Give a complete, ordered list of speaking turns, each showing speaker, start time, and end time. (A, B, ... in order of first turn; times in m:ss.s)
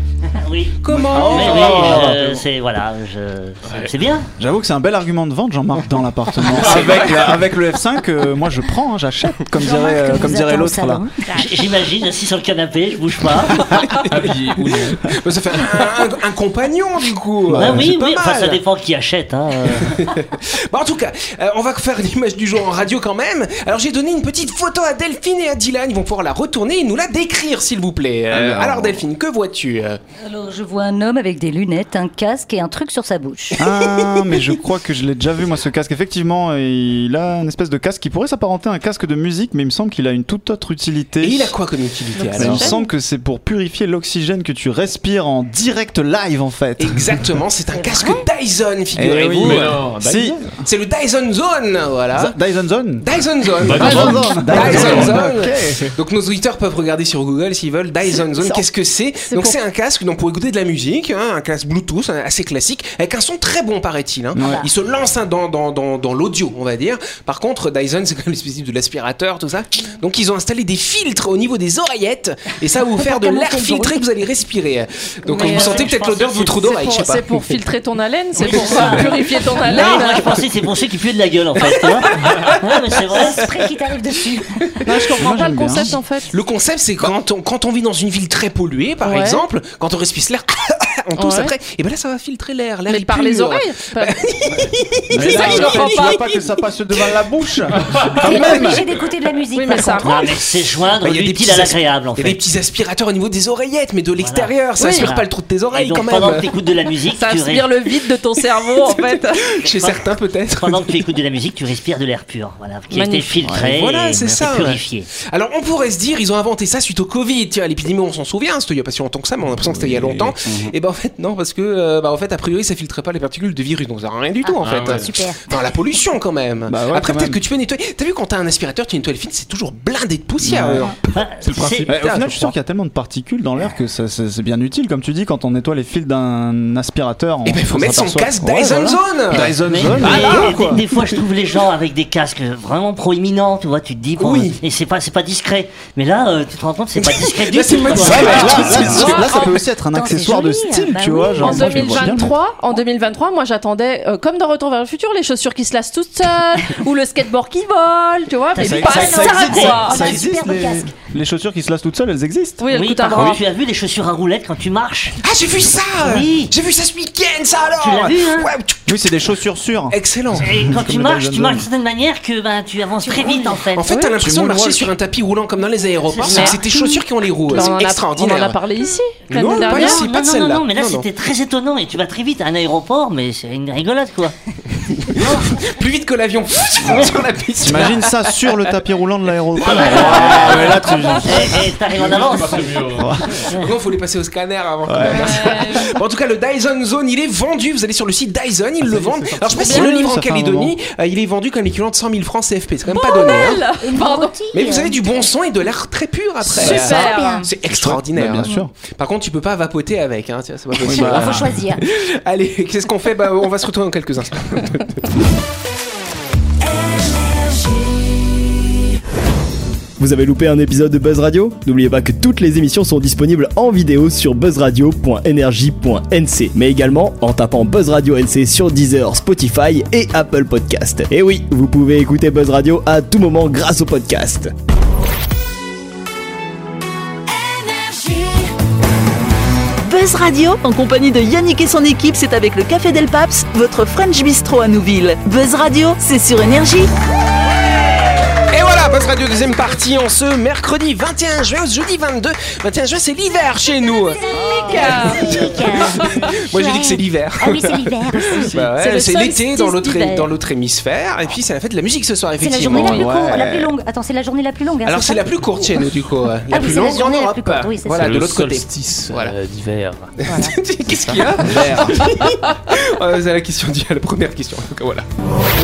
0:00.3-0:04.3 A
0:00.8-0:02.2 B
0:00.9-0:02.2 C
0:01.1-0:02.4 D
0:04.4-0:11.1 D
0:06.5-0:07.3 C
0:09.6-0:11.5 E
0:11.3-0:13.8 A
0:14.0-0:15.1 C
0:15.1-0:18.6 B
0:17.5-0:20.0 A
0:19.8-0:30.0 B
0:28.3-0:29.0 D
0:30.2-0:33.6 E
0:33.6-0:41.6 D
0:41.2-0:42.8 B
0:42.1-0:42.9 F
0:42.3-0:47.0 D
0:46.8-0:49.9 B
0:47.7-0:48.2 E
0:49.0-0:50.6 D
0:49.4-0:50.5 C
0:50.6-0:52.4 B
0:52.2-0:53.1 D
0:53.0-1:17.6 B
0:53.6-0:55.9 C
0:53.6-0:55.9 D
0:58.1-0:58.7 F
0:59.3-0:59.6 F
1:04.3-1:04.6 D
1:04.4-1:04.7 E
1:12.9-1:14.0 E
1:15.3-1:16.8 A
1:15.3-1:15.9 F
1:16.7-1:20.4 F
1:18.4-1:23.5 A
1:18.5-1:20.4 B
1:22.1-1:22.5 B
1:23.1-1:24.6 E
1:24.8-1:26.4 F
1:25.1-1:25.9 D
1:26.3-1:36.1 B
1:29.0-1:29.4 F
1:31.2-1:31.5 F
1:32.9-1:34.2 F
1:35.1-1:36.4 F
1:35.1-1:38.8 D
1:37.8-1:38.2 C
1:38.2-1:40.2 E
1:39.6-1:40.3 F
1:40.0-1:42.4 A
1:41.0-1:46.5 B
1:44.2-1:47.8 A
1:44.8-1:45.1 F
1:47.1-1:49.9 F
1:48.7-1:51.0 B
1:50.6-1:55.1 A
1:52.9-1:53.6 F
1:53.6-2:11.0 B
1:59.6-2:00.4 C
2:04.4-2:05.5 E
2:04.6-2:05.1 C
2:06.7-2:07.4 D
2:10.4-2:10.9 D
2:11.1-2:11.9 A
2:11.4-2:12.4 C
2:11.9-2:20.8 D
2:11.9-2:12.5 B
2:17.4-2:21.0 B
2:19.6-2:29.3 A
2:24.2-2:24.6 B
2:27.0-2:29.5 B
2:28.0-2:32.4 D
2:28.9-2:29.3 E
2:29.9-2:32.2 E
2:31.4-2:40.1 F
2:38.5-2:39.8 A
2:38.6-2:42.6 D
2:38.8-2:40.9 E
2:42.6-2:43.4 F
2:42.7-2:45.2 A
2:43.1-2:43.4 C
2:45.2-2:49.0 B
2:46.0-2:46.5 A
2:47.8-2:48.5 A
2:48.9-2:51.7 D
2:49.9-2:50.5 B
2:50.4-2:53.9 A
2:53.0-2:53.5 E
2:53.8-2:58.6 B
2:53.9-2:54.2 F
2:54.2-2:54.9 D
2:56.2-2:56.6 A
2:56.2-2:56.8 F
2:57.5-3:00.0 F
2:59.3-3:01.1 B
2:59.5-3:04.3 A
3:05.0-3:08.6 B
3:05.1-3:05.5 A
3:06.8-3:07.2 A
3:07.6-3:11.6 D
3:09.6-3:10.4 B
3:09.6-3:10.6 C
3:09.8-3:11.2 F
3:10.0-3:10.7 A
3:11.2-3:13.7 A
3:11.9-3:13.6 C
3:12.9-3:13.5 D
3:13.5-3:23.6 B
3:14.9-3:15.5 D
3:15.0-3:16.0 F
3:18.8-3:19.8 C
3:19.6-3:20.0 F
3:19.6-3:20.7 D
3:22.9-3:24.4 F
3:23.8-3:25.3 E
3:24.5-3:35.2 B
3:26.4-3:27.5 E
3:26.5-3:27.5 F
3:27.6-3:28.7 D
3:30.8-3:31.5 D
3:30.9-3:31.8 E
3:40.0-3:54.5 G
3:59.8-4:06.9 H
4:08.5-4:14.2 B
4:14.1-4:18.6 E
4:14.4-4:15.5 F
4:14.7-4:23.1 B
4:18.8-4:20.0 F
4:19.6-4:20.3 E
4:22.4-4:25.8 E
4:22.7-4:23.7 D
4:24.8-4:29.4 B
4:26.5-4:28.1 E
4:27.9-4:30.1 C
4:30.2-4:35.1 B
4:30.3-4:30.5 F
4:30.9-4:32.2 D
4:32.0-4:32.5 F